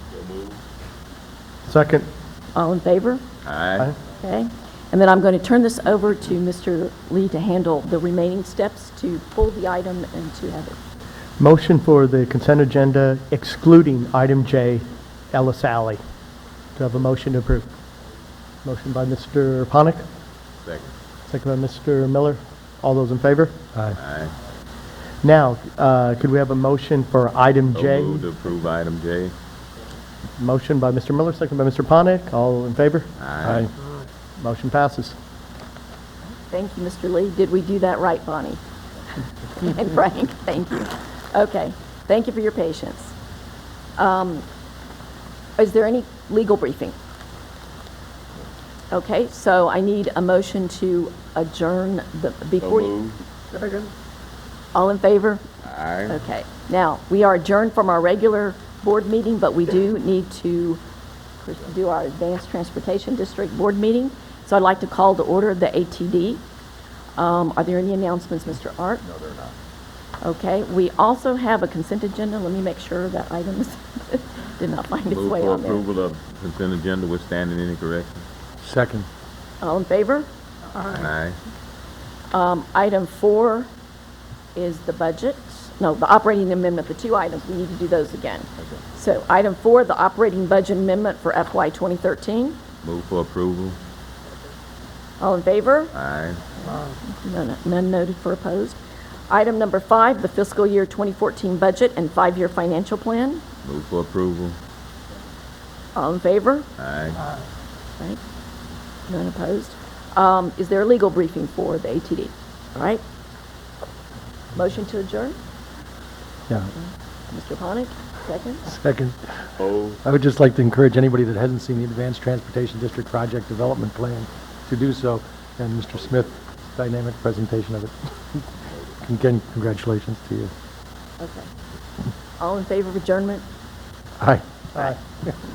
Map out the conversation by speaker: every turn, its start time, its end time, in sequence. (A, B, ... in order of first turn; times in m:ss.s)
0:00.1-0:00.6 A
0:01.6-0:02.1 B
0:02.5-0:03.2 C
0:03.4-0:03.9 A
0:04.2-0:10.8 C
0:11.4-0:16.0 B
0:16.8-0:17.7 B
0:18.6-0:20.0 B
0:20.6-0:20.9 A
0:21.3-0:23.6 B
0:24.0-0:24.3 A
0:25.2-0:28.2 B
0:27.7-0:29.3 A
0:30.4-0:33.1 B
0:33.2-0:33.7 A
0:33.4-0:33.7 D
0:34.4-0:35.2 B
0:36.5-0:38.6 C
0:39.6-0:43.1 C
0:44.0-0:44.4 C
0:45.6-0:46.9 C
0:48.9-0:52.9 C
0:52.6-0:53.2 A
0:54.7-0:55.4 C
0:55.6-0:56.2 A
0:56.1-1:00.8 C
1:01.4-1:06.4 C
1:07.2-1:09.2 C
1:10.2-1:15.8 C
1:15.1-1:18.2 A
1:18.6-1:19.1 D
1:19.6-1:20.3 C
1:20.9-1:21.4 A
1:22.3-1:23.7 C
1:24.5-1:32.6 C
1:32.8-1:33.8 A
1:35.2-1:35.9 C
1:35.9-1:36.4 A
1:37.0-1:38.8 C
1:39.3-1:43.4 C
1:43.6-1:44.6 A
1:45.9-1:46.7 C
1:46.8-1:47.2 A
1:49.1-1:53.0 C
1:54.5-1:55.4 C
1:56.7-1:58.6 C
1:58.6-1:59.5 D
1:59.6-2:00.0 A
2:00.0-2:08.5 D
2:09.0-2:10.5 D
2:11.2-2:11.5 C
2:12.4-2:13.4 C
2:14.2-2:15.3 D